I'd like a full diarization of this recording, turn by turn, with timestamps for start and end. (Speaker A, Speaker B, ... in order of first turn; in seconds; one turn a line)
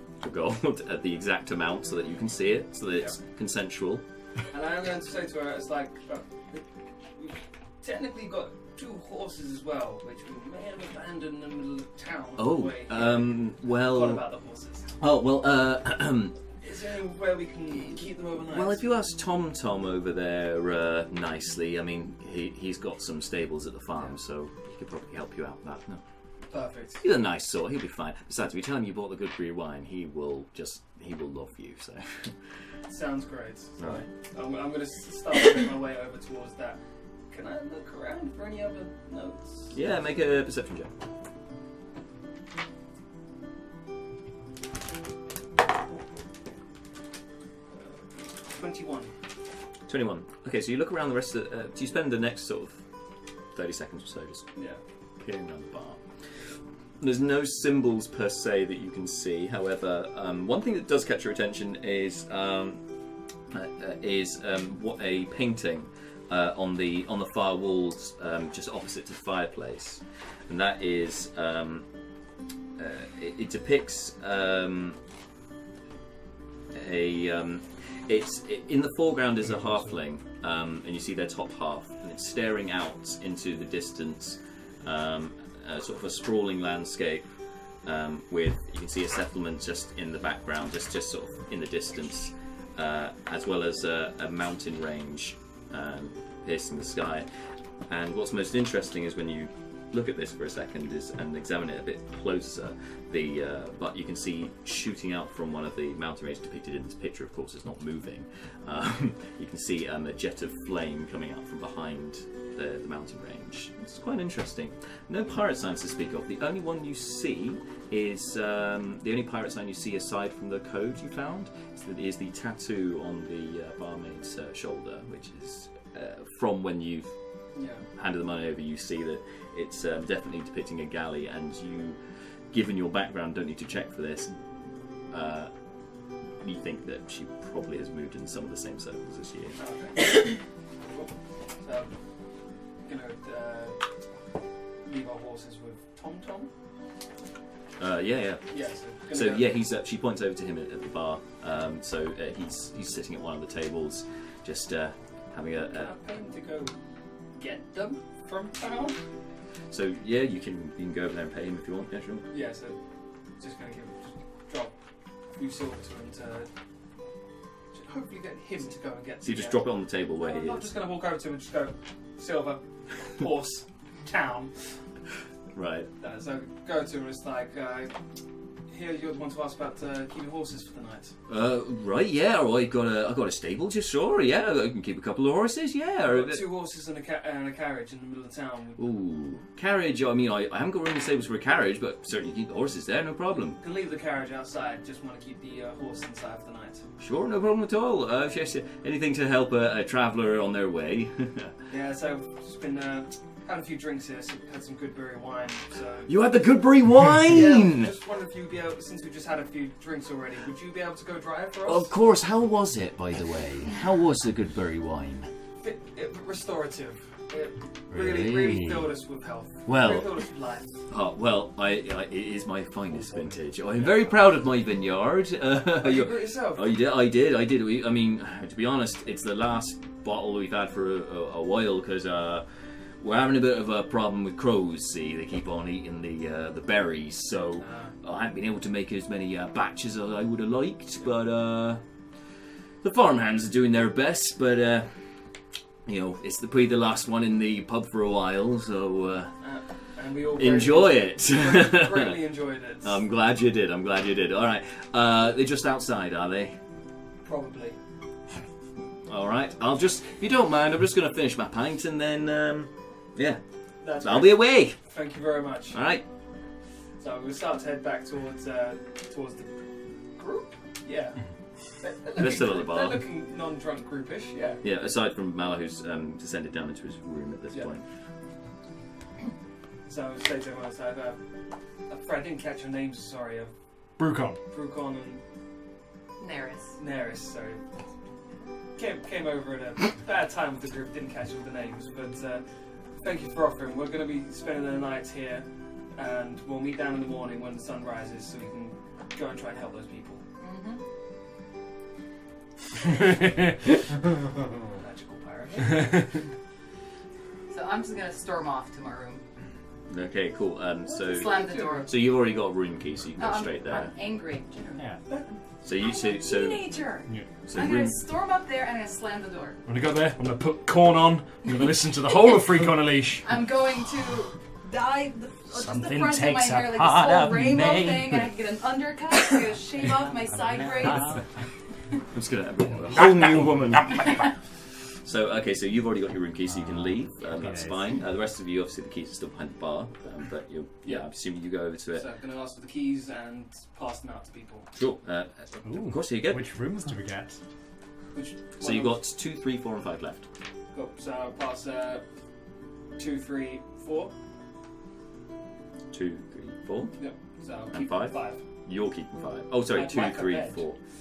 Speaker A: 0.2-4.0
Speaker B: 4.5-6.6
Speaker B: 7.1-14.9
Speaker A: 12.4-14.2
Speaker A: 15.0-16.4
Speaker B: 16.6-18.8
Speaker A: 18.5-26.0
Speaker B: 26.5-27.0
Speaker A: 27.0-32.3
Speaker B: 32.9-33.8
Speaker A: 33.8-34.1
Speaker B: 34.3-39.7
Speaker A: 39.7-40.9
Speaker B: 47.7-49.1
Speaker A: 49.9-52.8
Speaker A: 53.5-54.4
Speaker B: 54.5-54.8
Speaker A: 55.2-56.0
Speaker A: 57.0-62.8
Speaker A: 63.5-71.8
Speaker A: 72.8-75.0
Speaker A: 76.7-87.2
Speaker A: 87.8-97.3
Speaker A: 97.9-127.1
Speaker B: 127.5-127.8
Speaker A: 128.0-132.0
Speaker A: 132.5-134.3
Speaker A: 135.1-135.5
Speaker A: 136.4-139.5
Speaker B: 139.6-140.3
Speaker B: 141.6-141.9
Speaker B: 142.8-143.8
Speaker B: 144.8-146.5
Speaker A: 147.8-148.4
Speaker B: 148.5-149.5
Speaker A: 149.1-155.9
Speaker B: 155.7-156.7
Speaker B: 157.3-159.0
Speaker A: 159.7-162.3
Speaker B: 162.3-162.8
Speaker B: 163.4-164.7
Speaker B: 165.3-166.5
Speaker B: 167.7-174.5
Speaker A: 169.2-170.7
Speaker A: 175.5-175.9
Speaker B: 176.0-177.9
Speaker B: 178.7-181.1
Speaker A: 181.3-186.4
Speaker B: 186.1-188.8
Speaker A: 188.8-193.6
Speaker B: 193.6-196.8
Speaker A: 197.0-201.5
Speaker B: 201.7-206.1
Speaker A: 206.1-207.9
Speaker B: 207.3-211.9
Speaker A: 211.6-215.3
Speaker B: 215.6-220.7
Speaker A: 217.9-218.9
Speaker A: 219.7-220.1
Speaker A: 220.9-232.4
Speaker B: 225.7-226.7
Speaker A: 233.0-241.8
Speaker B: 237.6-237.9
Speaker A: 242.8-244.9
Speaker A: 245.8-249.3
Speaker B: 249.4-253.0
Speaker A: 250.3-252.2
Speaker A: 252.8-256.6
Speaker B: 257.2-257.8
Speaker A: 259.1-263.4
Speaker B: 263.8-265.8
Speaker A: 263.9-264.8
Speaker A: 265.7-266.0
Speaker B: 267.0-269.5
Speaker B: 270.1-271.2
Speaker B: 271.8-274.6
Speaker A: 272.1-273.0
Speaker A: 274.6-277.8
Speaker B: 279.9-281.2
Speaker B: 281.9-283.5
Speaker C: 284.0-284.4
Speaker B: 284.5-285.2
Speaker D: 286.2-286.8
Speaker B: 286.8-287.6
Speaker B: 288.8-292.4
Speaker B: 293.0-300.2
Speaker D: 300.4-300.8
Speaker C: 303.0-303.6
Speaker B: 304.8-306.1
Speaker D: 307.5-309.2
Speaker A: 309.9-313.9
Speaker D: 310.9-312.1
Speaker B: 311.0-311.9
Speaker D: 313.2-314.7
Speaker B: 314.6-315.3
Speaker A: 315.6-316.8
Speaker D: 315.8-319.6
Speaker A: 317.5-318.0
Speaker C: 319.6-323.4
Speaker D: 323.2-331.2
Speaker C: 325.5-328.0
Speaker A: 327.5-328.0
Speaker E: 330.9-331.2
Speaker A: 332.1-334.3
Speaker C: 333.0-333.6
Speaker A: 335.0-342.0
Speaker E: 336.5-338.0
Speaker B: 341.9-344.7
Speaker A: 344.7-346.4
Speaker E: 345.6-347.4
Speaker B: 348.1-349.0
Speaker A: 348.6-350.2
Speaker B: 350.7-352.0
Speaker B: 353.0-354.1
Speaker A: 355.9-357.0
Speaker B: 357.0-358.4
Speaker A: 357.7-360.8
Speaker B: 359.7-360.6